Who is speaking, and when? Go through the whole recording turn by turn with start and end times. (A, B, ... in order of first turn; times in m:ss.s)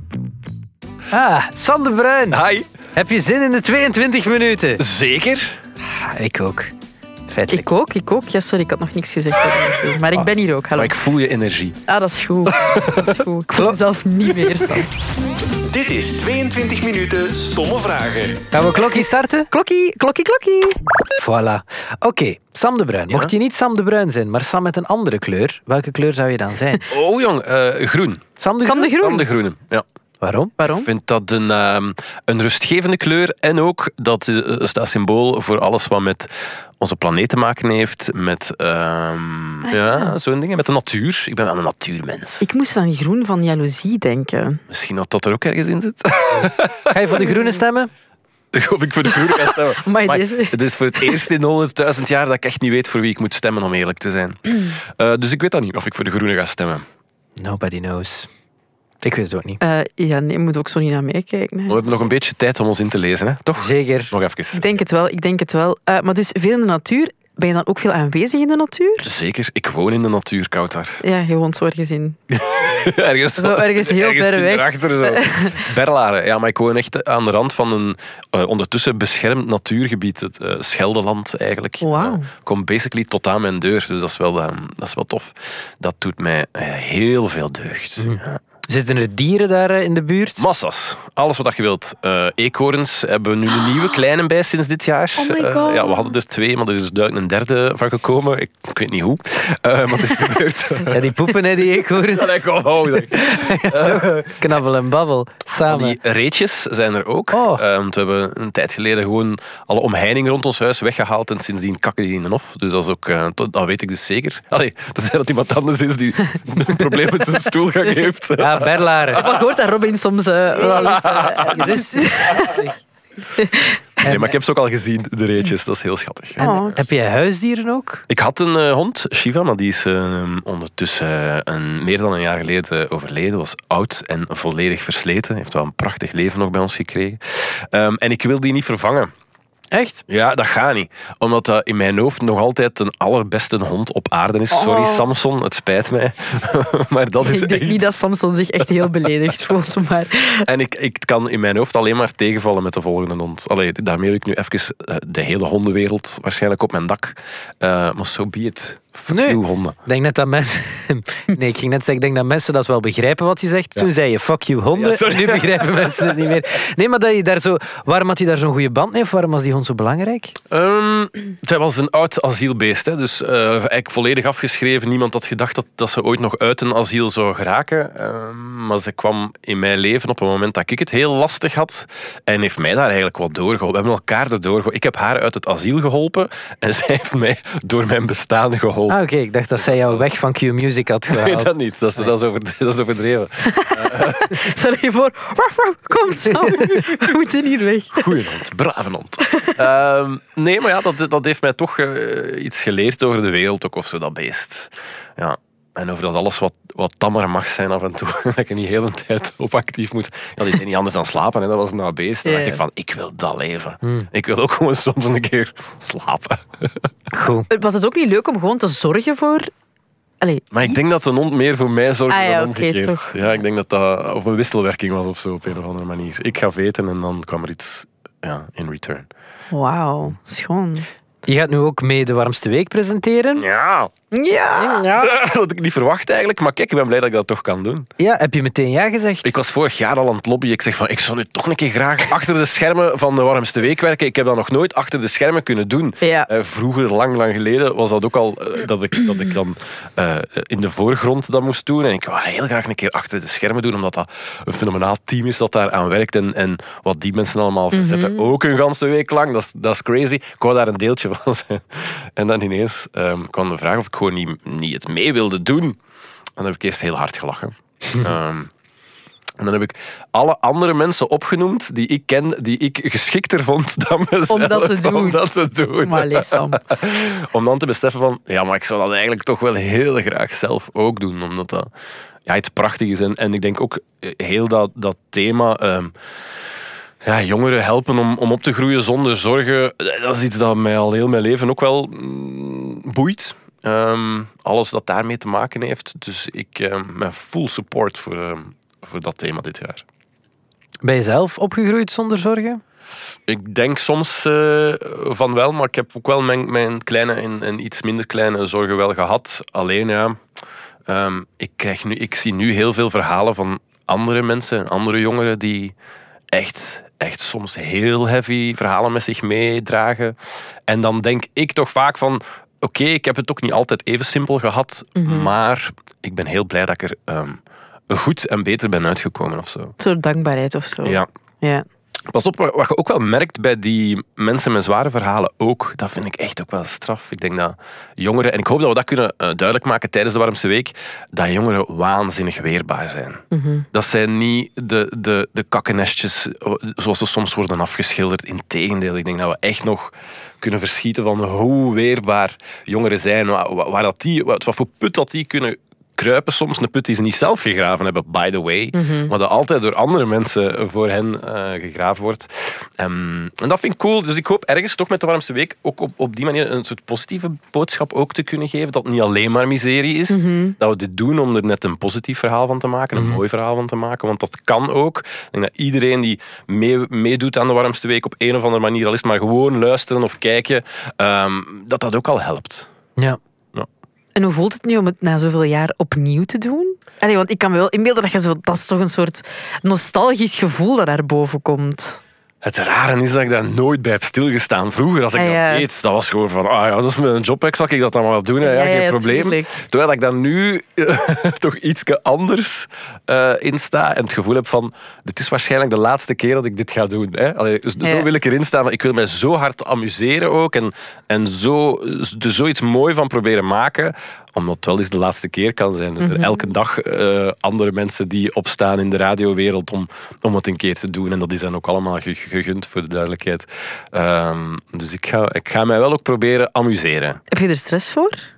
0:01.1-0:02.4 A
0:02.3-0:02.7 B
0:02.9-0:04.8 A
0:04.8-0:05.6 B
0:05.8-0:06.7 A
0:07.3-0:07.7 A
0:07.5-0:11.0 C
0:10.1-0:11.8 B
0:11.9-0:14.9 C
0:12.5-0:13.2 B
0:13.5-0:13.8 A
0:15.7-0:18.4 D
0:18.5-0:19.5 A
0:19.5-0:20.8 C
0:21.2-0:26.9 A
0:26.9-0:28.2 B
0:28.4-0:29.0 A
0:28.6-0:29.2 C
0:29.0-0:29.8 B
0:30.2-0:30.5 A
0:30.6-0:30.9 C
0:30.7-0:42.5 B
0:39.7-0:40.0 C
0:42.4-0:44.6 C
0:44.7-0:47.2 B
0:46.9-0:47.9 A
0:47.2-0:47.5 C
0:48.5-0:56.8 B
0:49.1-0:51.2 C
0:57.4-0:58.3 A
0:59.0-0:59.6 A
0:59.6-1:01.8 C
1:01.7-1:04.8 B
1:03.6-1:04.1 A
1:04.5-1:09.1 C
1:09.0-1:11.0 B
1:11.0-1:12.2 C
1:12.3-1:28.4 B
1:13.4-1:15.6 C
1:21.8-1:22.3 C
1:28.0-1:30.4 A
1:30.4-1:44.4 B
1:35.2-1:36.2 C
1:40.9-1:46.0 A
1:45.7-1:59.4 B
1:47.3-1:47.6 A
1:58.4-1:59.2 A
1:59.2-2:02.6 C
2:00.6-2:02.6 B
2:01.4-2:02.8 A
2:03.4-2:04.0 C
2:04.0-2:06.8 B
2:04.0-2:04.3 A
2:06.4-2:06.8 C
2:06.4-2:08.0 A
2:08.1-2:19.1 B
2:19.7-2:20.0 A
2:20.1-2:27.8 B
2:24.5-2:25.1 C
2:27.2-2:30.5 C
2:28.8-2:29.1 B
2:30.5-2:39.8 B
2:39.1-2:50.4 A
2:44.7-2:46.3 B
2:50.5-3:09.0 B
3:08.9-3:11.5 A
3:09.6-3:10.1 B
3:11.1-3:14.5 B
3:13.4-3:18.2 C
3:16.4-3:17.1 B
3:17.9-3:36.9 B
3:19.2-3:19.6 C
3:32.2-3:32.6 C
3:33.8-3:34.1 A
3:37.1-3:37.5 A
3:37.5-3:39.5 C
3:40.2-3:40.9 C
3:40.5-3:49.1 B
3:42.1-3:43.2 C
3:49.5-3:50.9 C
3:51.3-3:53.5 A
3:53.4-3:53.9 B
3:54.1-3:54.8 C
3:54.5-3:55.1 A
3:54.8-3:57.9 B
3:58.0-3:59.3 A
3:59.2-4:25.8 B
4:06.0-4:06.3 C
4:17.7-4:18.2 C
4:26.4-4:28.5 B
4:29.4-4:41.7 B
4:34.3-4:35.2 C
4:35.8-4:36.6 C
4:42.2-4:45.9 B
4:47.0-4:59.8 B
5:00.8-5:02.6 A
5:03.3-5:10.2 B
5:10.9-5:15.8 B
5:16.3-5:20.2 B
5:20.7-5:29.8 B
5:25.0-5:25.3 C
5:29.8-5:31.7 C
5:32.1-6:22.7 B
5:43.3-5:43.7 C
5:58.8-5:59.1 C
6:10.1-6:10.6 C
6:24.2-6:32.0 C
6:32.4-7:07.2 B
6:35.2-6:35.7 C
6:38.4-6:39.6 C
6:47.8-6:48.1 C
6:56.0-6:56.4 C
7:07.3-7:08.2 C